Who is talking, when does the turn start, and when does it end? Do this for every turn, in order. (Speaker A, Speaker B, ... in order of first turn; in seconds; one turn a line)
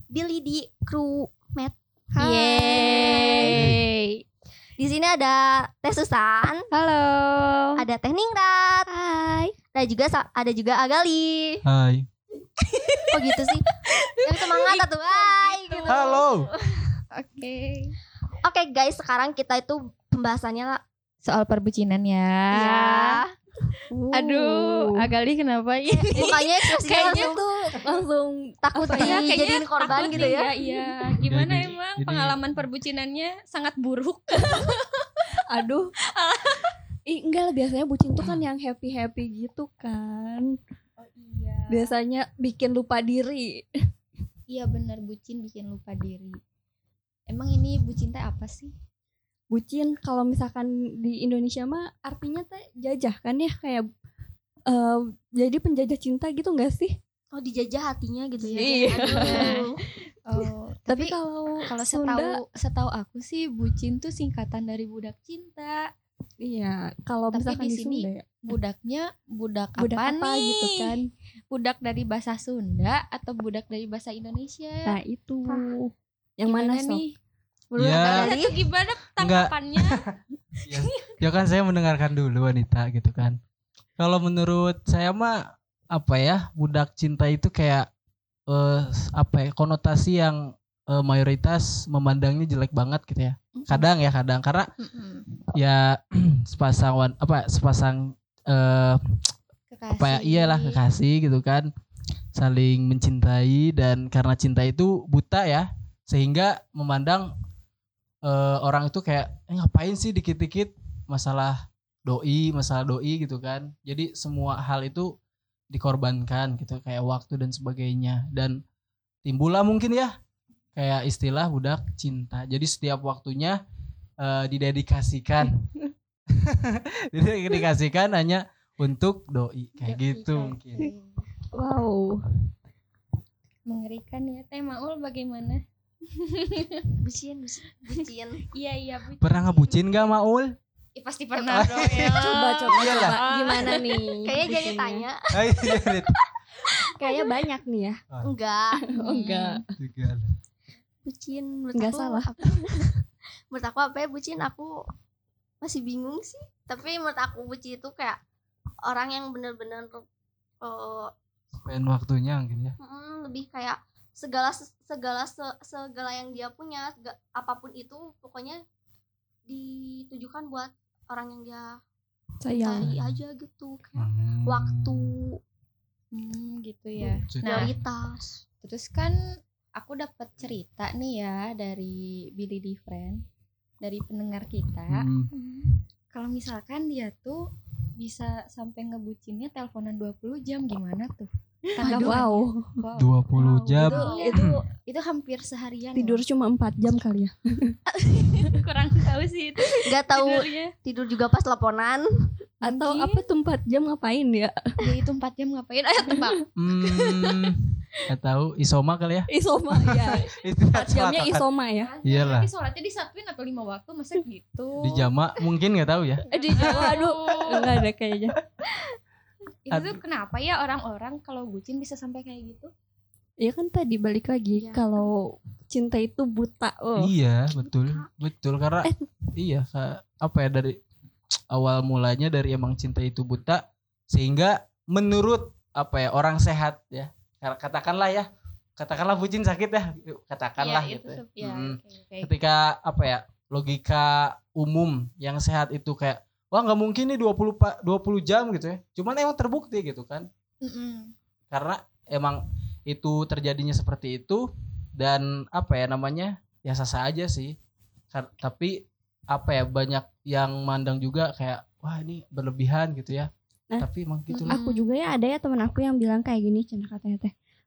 Speaker A: 0.1-3.6
Speaker B: 2.2-4.2
Speaker C: 3.5-3.8
Speaker A: 4.8-6.7
Speaker B: 6.7-7.8
Speaker A: 7.8-11.6
Speaker C: 11.7-12.1
Speaker B: 12.6-16.3
Speaker A: 13.1-13.7
Speaker A: 14.2-16.2
Speaker C: 15.9-16.5
Speaker B: 17.1-17.9
Speaker A: 18.4-20.8
Speaker B: 21.2-23.2
Speaker A: 22.5-23.3
Speaker D: 23.9-24.9
Speaker B: 24.1-27.3
Speaker A: 25.9-27.8
Speaker D: 26.9-29.2
Speaker A: 28.7-30.5
Speaker B: 28.9-35.2
Speaker C: 30.0-30.3
Speaker D: 30.6-31.0
Speaker C: 31.3-32.6
Speaker D: 35.5-35.9
Speaker B: 36.1-36.7
Speaker D: 37.1-40.6
Speaker B: 41.0-42.0
Speaker D: 41.7-43.6
Speaker B: 44.5-46.4
Speaker B: 47.3-48.7
Speaker D: 49.5-53.9
Speaker D: 54.7-56.9
Speaker A: 57.3-59.8
Speaker B: 58.4-59.7
Speaker D: 58.6-59.5
Speaker B: 60.3-65.9
Speaker D: 60.9-62.4
Speaker D: 66.4-68.2
Speaker B: 67.3-71.0
Speaker D: 69.8-71.0
Speaker B: 71.5-74.9
Speaker D: 74.9-77.0
Speaker B: 76.5-77.2
Speaker A: 77.7-78.5
Speaker C: 77.8-78.3
Speaker B: 78.0-80.0
Speaker C: 79.2-80.1
Speaker C: 80.7-83.4
Speaker C: 84.0-85.4
Speaker C: 85.9-87.9
Speaker C: 88.5-94.7
Speaker D: 93.6-93.8
Speaker B: 94.8-95.2
Speaker C: 95.5-99.2
Speaker B: 99.7-100.8
Speaker C: 100.0-101.7
Speaker C: 102.3-107.3
Speaker C: 108.2-115.1
Speaker C: 115.7-118.6
Speaker C: 119.2-120.2
Speaker C: 120.8-123.6
Speaker C: 124.2-125.7
Speaker C: 126.3-130.9
Speaker B: 129.8-131.2
Speaker D: 131.5-132.2
Speaker B: 133.7-136.9
Speaker A: 137.0-138.4
Speaker B: 138.0-140.1
Speaker C: 139.2-140.6
Speaker B: 141.0-144.0
Speaker C: 141.5-143.2
Speaker D: 142.2-145.0
Speaker A: 144.2-145.4
Speaker C: 145.3-146.2
Speaker D: 146.9-148.0
Speaker A: 148.2-148.8
Speaker D: 148.8-149.6
Speaker B: 149.0-149.6
Speaker C: 149.8-150.3
Speaker A: 151.1-152.9
Speaker D: 151.7-152.3
Speaker A: 153.5-154.7
Speaker A: 155.6-158.2
Speaker A: 158.8-160.1
Speaker A: 160.6-161.1
Speaker C: 161.7-162.8
Speaker A: 162.8-168.6
Speaker A: 169.5-171.8
Speaker D: 172.4-172.9
Speaker A: 172.6-175.4
Speaker C: 172.8-173.2
Speaker C: 174.0-175.1
Speaker B: 176.1-177.7
Speaker A: 177.0-178.4
Speaker C: 177.3-177.7
Speaker B: 178.6-179.2
Speaker B: 179.8-183.2
Speaker B: 183.8-187.4
Speaker C: 184.9-185.3
Speaker B: 188.0-196.2
Speaker D: 191.8-192.8
Speaker A: 191.8-192.2
Speaker C: 193.0-194.5
Speaker D: 193.4-194.6
Speaker A: 193.9-194.3
Speaker D: 196.0-197.8
Speaker B: 197.9-200.7
Speaker A: 199.8-202.3
Speaker D: 202.6-204.7
Speaker B: 202.7-203.2
Speaker B: 204.8-206.4
Speaker C: 206.6-211.4
Speaker D: 209.3-210.3
Speaker B: 210.7-215.1
Speaker D: 211.1-211.9
Speaker C: 212.1-212.5
Speaker C: 214.8-217.0
Speaker B: 216.3-217.7
Speaker D: 216.3-218.4
Speaker B: 219.7-222.7
Speaker C: 219.7-220.0
Speaker D: 223.4-225.2
Speaker D: 225.7-227.1
Speaker C: 227.0-230.8
Speaker C: 231.5-250.3
Speaker B: 240.6-242.3
Speaker B: 250.6-251.1
Speaker C: 251.5-257.6
Speaker C: 258.1-263.3
Speaker C: 263.8-264.6
Speaker B: 264.3-264.9
Speaker D: 264.5-267.3